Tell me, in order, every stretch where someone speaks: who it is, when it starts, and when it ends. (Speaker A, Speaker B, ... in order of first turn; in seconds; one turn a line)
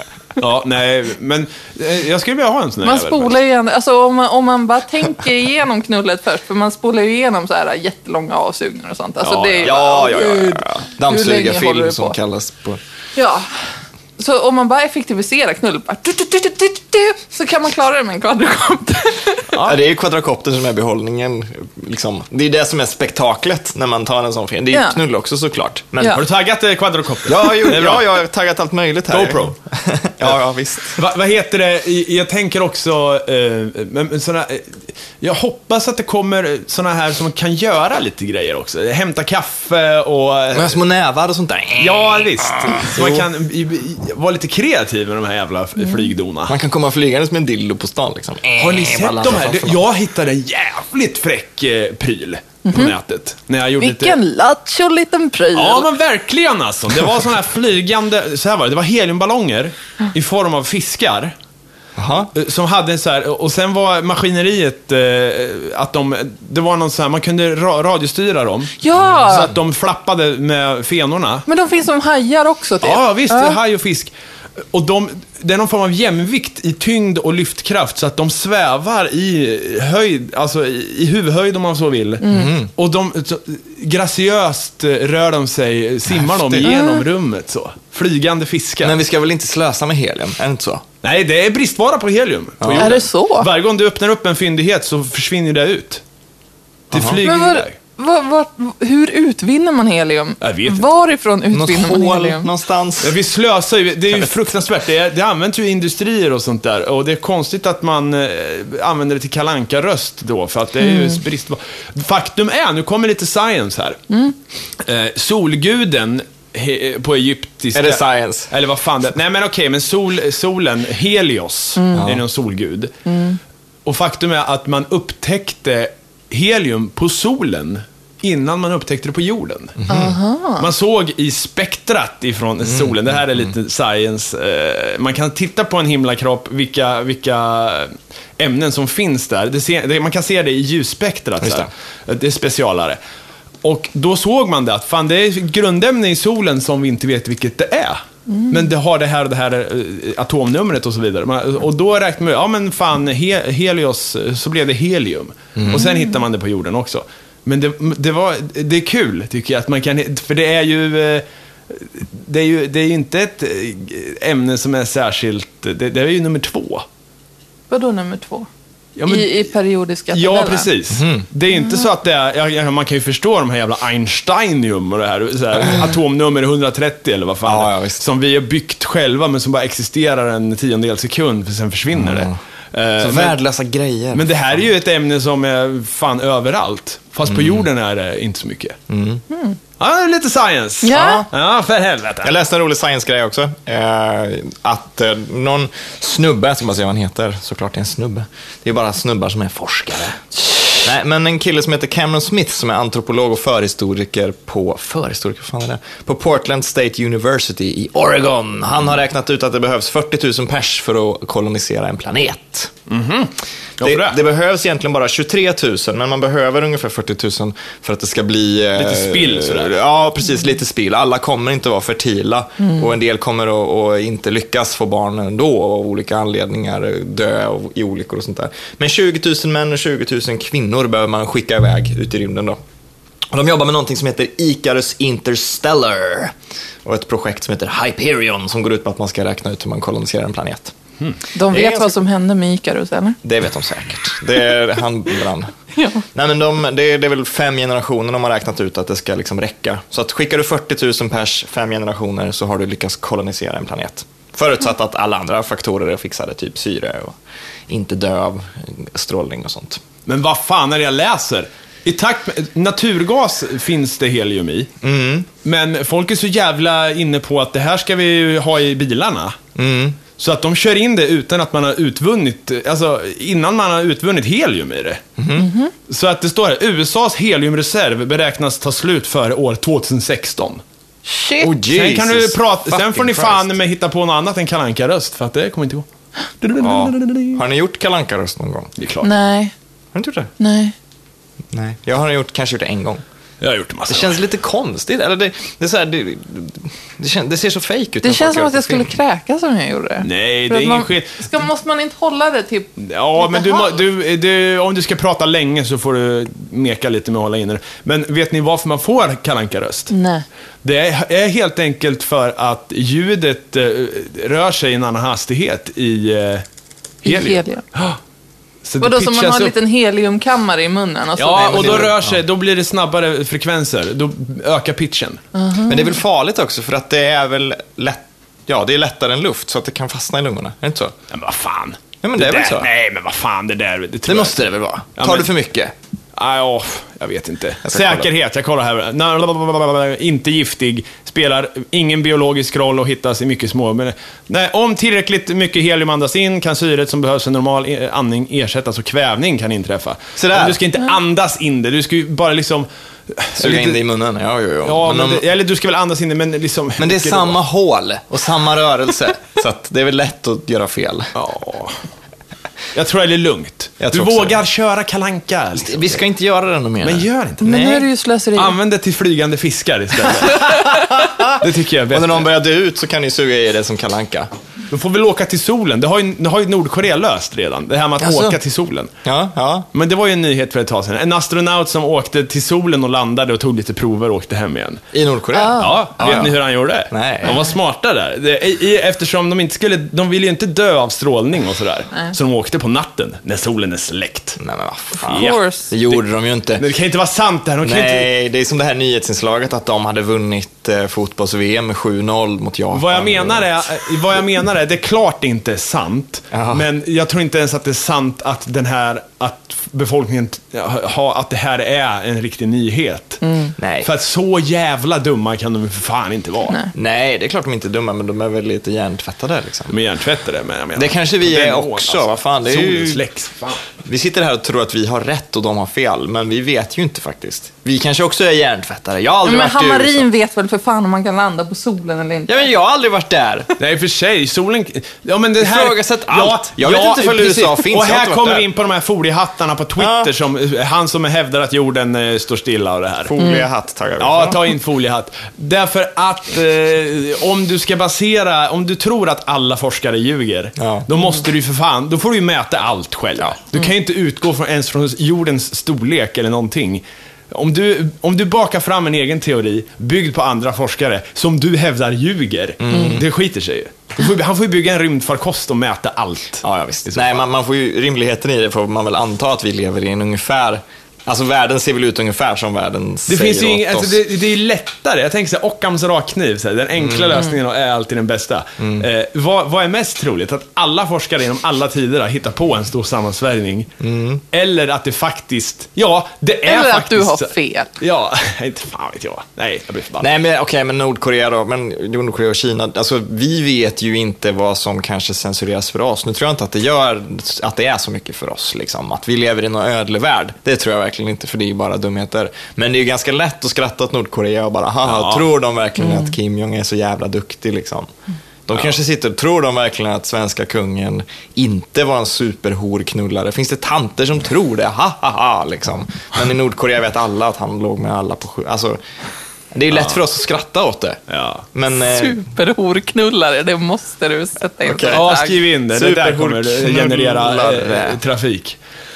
Speaker A: 0.4-3.4
Speaker B: 2.8-12.2
Speaker A: 9.2-9.7
Speaker C: 9.6-12.8
Speaker B: 13.2-13.5
Speaker B: 14.2-19.5
Speaker A: 19.5-19.8
Speaker C: 19.6-26.2
Speaker B: 24.7-25.0
Speaker A: 26.1-28.1
Speaker C: 27.3-31.0
Speaker A: 29.1-29.5
Speaker A: 30.9-40.8
Speaker C: 40.5-43.3
Speaker A: 41.8-46.5
Speaker C: 46.5-49.8
Speaker A: 48.6-54.2
Speaker B: 52.7-53.0
Speaker B: 53.8-55.9
Speaker A: 55.5-61.4
Speaker C: 62.0-62.3
Speaker A: 62.3-71.5
Speaker B: 68.8-69.5
Speaker B: 71.5-73.6
Speaker A: 72.8-74.1
Speaker A: 74.7-82.2
Speaker B: 82.2-82.5
Speaker C: 82.3-82.7
Speaker A: 82.8-89.0
Speaker C: 86.1-86.7
Speaker B: 86.6-87.0
Speaker C: 88.8-90.8
Speaker A: 91.0-96.0
Speaker C: 92.6-93.0
Speaker B: 92.8-93.5
Speaker A: 96.9-97.8
Speaker C: 96.9-97.2
Speaker B: 97.2-102.5
Speaker A: 100.4-100.9
Speaker C: 101.5-103.2
Speaker A: 103.0-114.0
Speaker B: 110.8-111.1
Speaker B: 114.1-114.3
Speaker A: 114.8-122.9
Speaker C: 117.7-118.5
Speaker B: 121.8-122.1
Speaker C: 122.0-122.2
Speaker B: 123.1-123.4
Speaker A: 123.8-129.9
Speaker C: 129.8-130.2
Speaker B: 129.9-130.7
Speaker A: 130.6-143.0
Speaker C: 132.7-133.5
Speaker C: 141.4-141.7
Speaker A: 143.6-166.8
Speaker B: 148.3-148.6
Speaker C: 155.6-155.8
Speaker B: 155.8-156.1
Speaker B: 167.7-168.5
Speaker A: 169.0-169.5
Speaker B: 169.1-170.7
Speaker A: 170.1-183.4
Speaker C: 170.9-171.3
Speaker B: 171.5-171.9
Speaker C: 177.4-178.0
Speaker C: 181.9-182.4
Speaker C: 183.0-184.6
Speaker A: 184.1-188.8
Speaker C: 187.3-187.7
Speaker C: 188.9-189.2
Speaker B: 189.3-189.6
Speaker A: 189.8-192.3
Speaker B: 190.8-191.3
Speaker C: 190.9-191.3
Speaker C: 192.2-212.7
Speaker A: 212.9-214.2
Speaker C: 213.8-232.6
Speaker A: 218.8-219.8
Speaker C: 233.3-236.3
Speaker C: 236.8-240.7
Speaker B: 241.3-243.2
Speaker C: 241.5-242.0
Speaker C: 243.2-245.5
Speaker B: 245.8-246.0
Speaker C: 246.1-257.2
Speaker C: 257.7-259.8
Speaker A: 260.1-264.7
Speaker C: 264.8-265.3
Speaker A: 265.4-269.4
Speaker C: 269.6-270.0
Speaker A: 270.2-275.0
Speaker C: 275.2-275.5
Speaker B: 275.4-275.7
Speaker A: 275.9-280.6
Speaker B: 281.1-281.5
Speaker C: 281.4-283.5
Speaker A: 281.7-285.9
Speaker A: 286.4-287.4
Speaker C: 286.6-288.7
Speaker A: 288.8-289.1
Speaker B: 289.0-289.5
Speaker C: 289.9-290.3
Speaker B: 290.4-290.7
Speaker C: 291.5-293.0
Speaker A: 293.4-294.2
Speaker C: 293.9-298.9
Speaker B: 298.0-303.8
Speaker A: 300.0-301.2
Speaker A: 302.8-309.9
Speaker B: 309.9-310.2
Speaker A: 310.6-316.4
Speaker A: 317.0-318.0
Speaker B: 317.1-317.6
Speaker A: 318.6-319.6
Speaker B: 318.8-322.0
Speaker A: 321.2-325.2
Speaker C: 321.4-322.2
Speaker B: 325.3-325.9
Speaker C: 325.7-330.9
Speaker A: 331.1-334.4
Speaker C: 332.0-332.7
Speaker C: 334.1-335.7
Speaker A: 335.0-335.3
Speaker A: 336.1-353.8
Speaker C: 337.6-338.1
Speaker C: 350.2-350.6
Speaker C: 353.4-355.2
Speaker A: 354.6-357.4
Speaker C: 356.8-361.1
Speaker A: 361.1-361.8
Speaker A: 362.7-366.0
Speaker C: 363.8-364.4
Speaker C: 365.6-367.9
Speaker A: 366.8-367.5
Speaker B: 367.4-368.6
Speaker A: 368.4-372.3
Speaker C: 370.7-374.3
Speaker A: 374.7-378.9
Speaker C: 378.0-378.4
Speaker C: 379.1-379.7
Speaker A: 379.7-384.8
Speaker C: 384.9-386.4
Speaker B: 385.3-386.2
Speaker A: 385.6-394.4
Speaker C: 386.9-387.4
Speaker C: 394.4-396.6
Speaker A: 395.1-396.0
Speaker B: 395.1-395.7
Speaker A: 396.6-398.1
Speaker C: 397.6-403.8
Speaker A: 402.7-413.2
Speaker C: 406.3-406.6
Speaker B: 413.2-413.5
Speaker C: 413.6-413.9
Speaker A: 413.8-416.6
Speaker C: 416.7-419.8
Speaker A: 419.7-423.6
Speaker C: 420.8-423.0
Speaker C: 423.8-430.1
Speaker B: 429.2-432.5
Speaker C: 432.3-433.5
Speaker A: 433.6-443.1
Speaker C: 435.4-438.5
Speaker C: 439.8-440.1
Speaker C: 443.1-444.4
Speaker B: 443.2-443.4
Speaker A: 444.0-467.2
Speaker C: 450.6-450.9
Speaker C: 462.6-463.1
Speaker C: 466.4-474.0
Speaker A: 473.1-483.7
Speaker C: 476.8-477.2
Speaker C: 478.6-478.9
Speaker C: 483.8-484.2
Speaker A: 484.3-490.1
Speaker B: 486.4-487.7
Speaker C: 490.0-507.9
Speaker A: 504.9-505.2
Speaker C: 508.5-518.8
Speaker C: 519.5-521.0
Speaker A: 519.7-520.0
Speaker A: 521.1-521.4
Speaker C: 521.5-522.2
Speaker B: 521.9-525.4
Speaker C: 524.6-525.1
Speaker A: 524.9-528.6
Speaker C: 525.7-528.0